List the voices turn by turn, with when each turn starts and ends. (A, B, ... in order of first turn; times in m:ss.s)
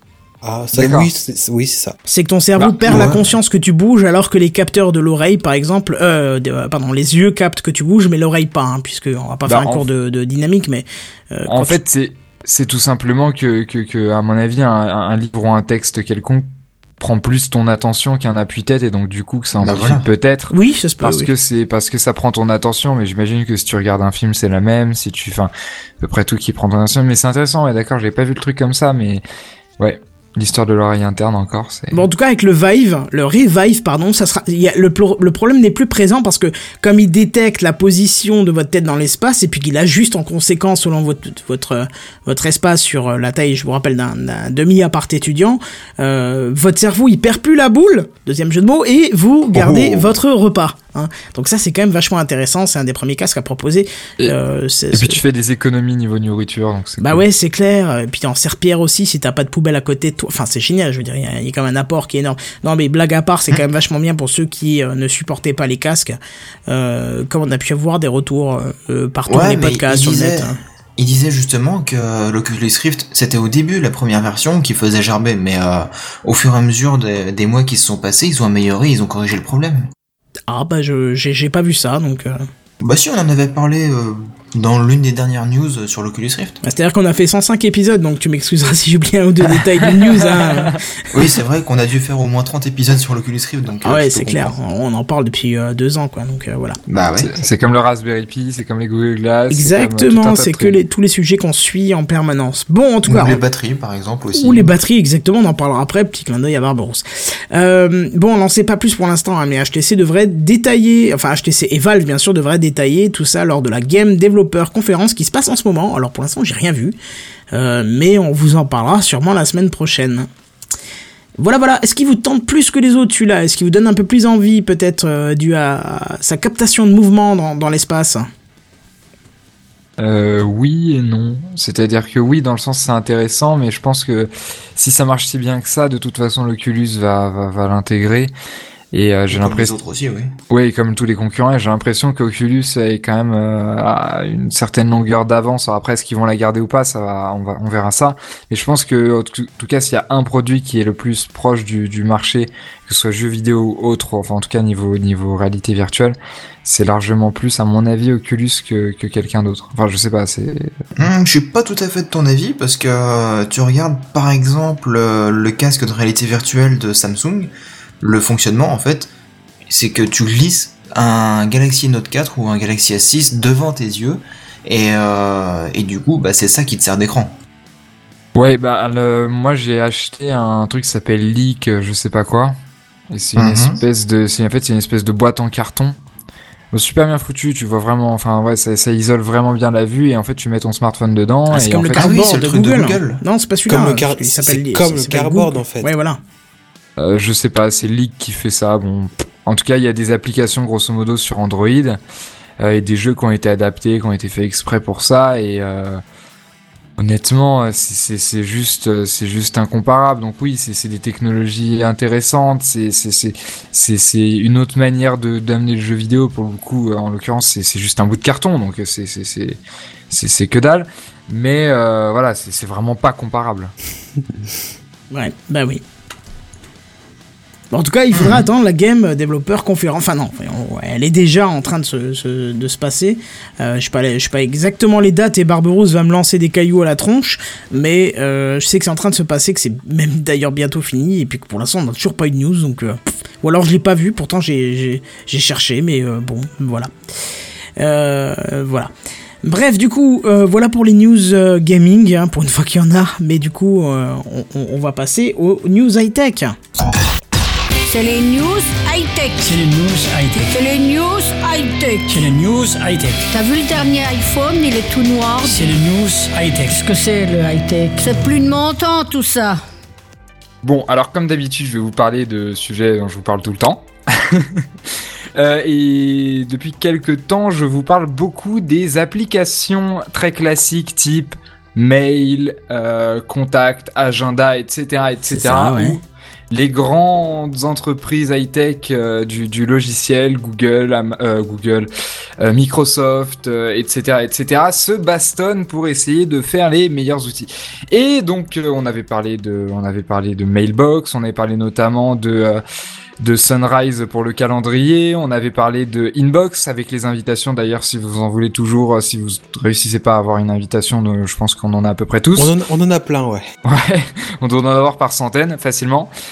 0:00.4-0:02.0 A
0:00.7-0:01.1 B
0:02.1-0:11.8 C
0:02.6-0:03.1 B
0:02.8-0:03.2 D
0:09.4-0:09.8 B
0:11.5-0:16.5 B
0:17.0-0:29.2 B
0:19.6-0:20.0 D
0:20.5-0:21.3 C
0:29.8-0:32.0 B
0:31.9-0:55.2 C
0:49.5-0:50.1 D
0:54.9-0:57.2 B
0:57.0-1:06.2 C
1:06.7-1:10.6 C
1:09.3-1:19.9 D
1:20.5-1:22.4 C
1:22.8-1:26.6 D
1:26.6-1:30.8 C
1:31.1-1:34.5 D
1:33.8-1:36.8 C
1:36.9-1:37.3 D
1:37.2-1:40.8 B
1:39.5-1:43.4 C
1:43.0-1:44.7 D
1:44.3-1:57.0 C
1:57.5-2:00.3 C
2:01.4-2:08.2 C
2:10.0-2:18.3 B
2:18.9-2:19.7 B
2:19.3-2:20.3 D
2:20.5-2:40.8 B
2:41.0-2:49.1 D
2:49.7-2:57.3 D
2:58.3-3:02.6 B
3:03.1-3:06.0 B
3:03.4-3:03.8 D
3:06.7-3:12.0 B
3:11.5-3:16.2 C
3:12.0-3:13.2 D
3:13.7-3:15.9 A
3:17.0-3:22.0 B
3:22.6-3:26.0 B
3:27.0-3:39.6 B
3:40.1-3:43.7 B
3:45.1-3:45.8 C
3:47.7-4:06.9 C
3:48.1-3:48.4 D
4:07.8-4:08.9 C
4:09.4-4:16.6 C
4:17.9-4:19.6 E
4:19.4-4:20.6 F
4:20.5-4:22.3 E
4:22.1-4:23.3 F
4:23.3-4:25.8 E
4:25.4-4:26.8 F
4:26.7-4:29.6 E
4:30.6-4:34.6 B
4:35.4-4:51.9 B
4:45.3-4:46.0 C
4:52.4-5:02.6 B
5:03.2-5:12.5 B
5:12.4-5:13.4 A
5:13.6-5:16.1 B